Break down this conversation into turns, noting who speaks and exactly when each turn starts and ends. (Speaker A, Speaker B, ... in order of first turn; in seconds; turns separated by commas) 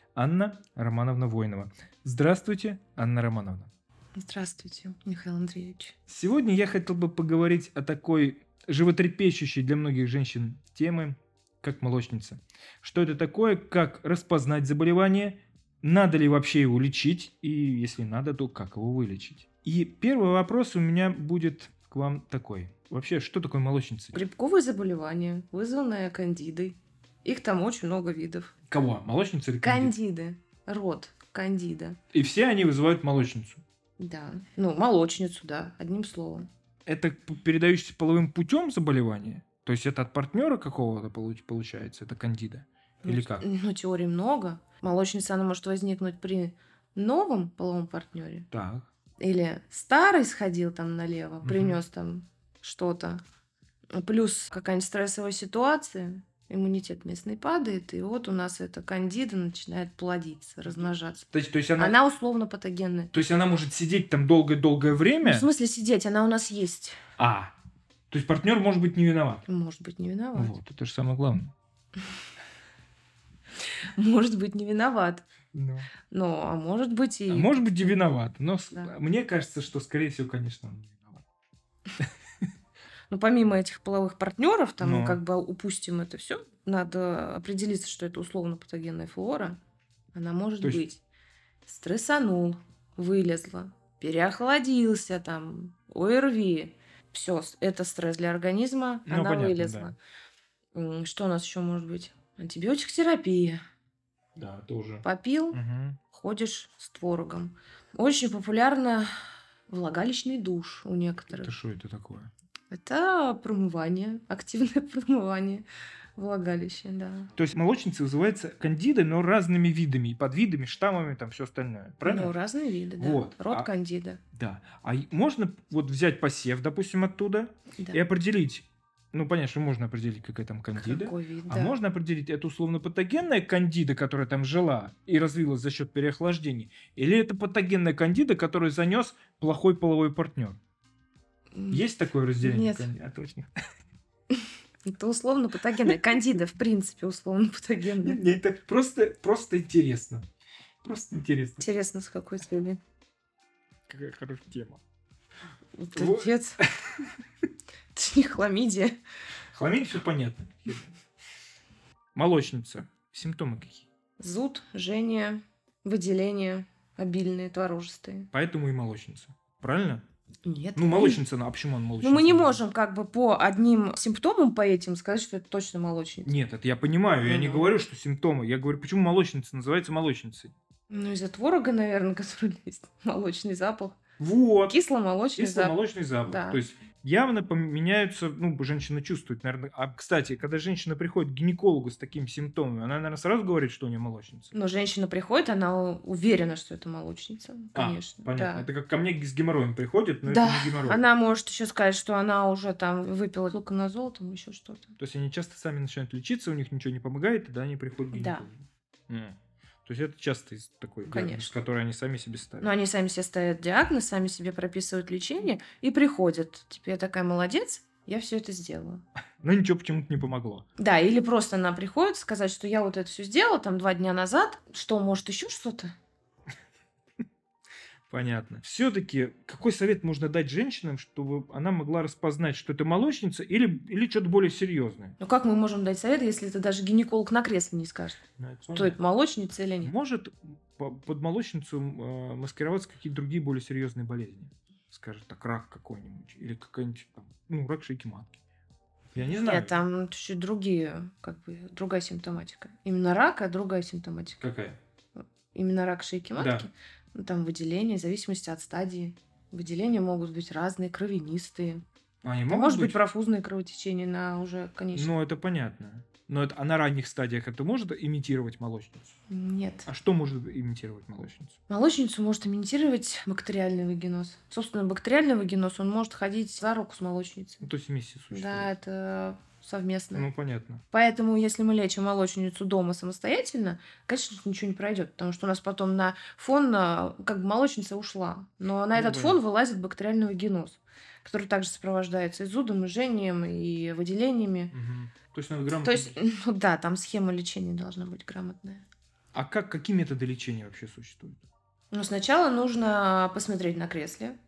Speaker A: 0.2-3.7, Speaker B: 4.2-6.0, Speaker A: 6.1-24.2, Speaker B: 24.1-28.5, Speaker A: 28.7-29.9, Speaker B: 29.6-32.0, Speaker A: 32.1-33.6, Speaker B: 34.0-36.5, Speaker A: 36.9-43.5, Speaker B: 43.0-48.5, Speaker A: 48.5-48.9, Speaker B: 49.2-53.2, Speaker A: 51.4-51.8, Speaker B: 54.0-63.1, Speaker A: 61.3-62.0, Speaker A: 63.1-65.5, Speaker B: 65.2-67.0, Speaker A: 67.2-67.5, Speaker A: 68.1-69.5, Speaker B: 69.5-70.6, Speaker A: 70.4-71.5, Speaker B: 74.0-75.3, Speaker A: 75.5-75.9, Speaker B: 76.1-77.6, Speaker A: 77.3-81.2, Speaker B: 83.1-89.6, Speaker A: 84.8-85.2, Speaker B: 90.1-91.0, Speaker B: 91.7-100.0, Speaker A: 99.1-99.9, Speaker B: 100.7-103.6, Speaker A: 104.4-106.0, Speaker B: 105.0-105.6, Speaker B: 106.1-109.1, Speaker B: 109.7-111.5, Speaker A: 111.3-112.3, Speaker B: 112.7-115.7, Speaker B: 116.2-117.3, Speaker A: 117.4-122.3, Speaker B: 122.0-124.2, Speaker A: 123.0-123.7, Speaker A: 124.3-140.6, Speaker B: 130.8-131.8, Speaker B: 141.6-141.8, Speaker A: 141.7-143.5, Speaker B: 142.4-142.9, Speaker B: 144.3-148.2, Speaker A: 148.0-150.3, Speaker A: 150.8-151.7, Speaker B: 151.6-152.8, Speaker A: 153.9-154.8, Speaker B: 155.8-156.6, Speaker A: 156.0-157.1, Speaker B: 157.9-159.0, Speaker A: 159.5-160.9, Speaker A: 162.2-163.9, Speaker B: 164.2-168.3, Speaker A: 168.3-170.0, Speaker B: 170.4-171.2, Speaker A: 170.8-172.6, Speaker B: 172.0-176.3, Speaker A: 176.3-180.5, Speaker B: 177.2-177.7, Speaker B: 180.9-184.0, Speaker A: 184.2-184.8, Speaker B: 184.7-186.6, Speaker A: 185.4-194.5, Speaker B: 194.5-198.7, Speaker A: 197.7-201.0, Speaker B: 200.3-204.9, Speaker A: 205.0-212.7, Speaker B: 208.1-208.5, Speaker B: 211.1-211.5, Speaker B: 212.6-219.0, Speaker A: 219.4-220.7, Speaker B: 220.8-225.9, Speaker A: 228.1-235.2, Speaker B: 235.2-238.2, Speaker A: 238.4-239.0, Speaker B: 238.7-239.9, Speaker A: 239.8-248.4, Speaker A: 249.2-249.8, Speaker B: 249.4-254.4, Speaker A: 254.4-254.8, Speaker B: 255.5-261.8, Speaker A: 256.4-256.7, Speaker A: 262.2-263.0, Speaker B: 262.5-265.1, Speaker A: 264.9-269.1, Speaker B: 269.3-269.9, Speaker A: 269.9-271.6, Speaker B: 271.7-277.7, Speaker A: 277.6-278.7, Speaker B: 278.3-280.3, Speaker A: 280.1-280.8, Speaker B: 280.9-294.7, Speaker A: 288.9-289.4, Speaker A: 294.7-296.1, Speaker B: 295.8-298.9, Speaker A: 299.3-301.5, Speaker B: 301.9-304.4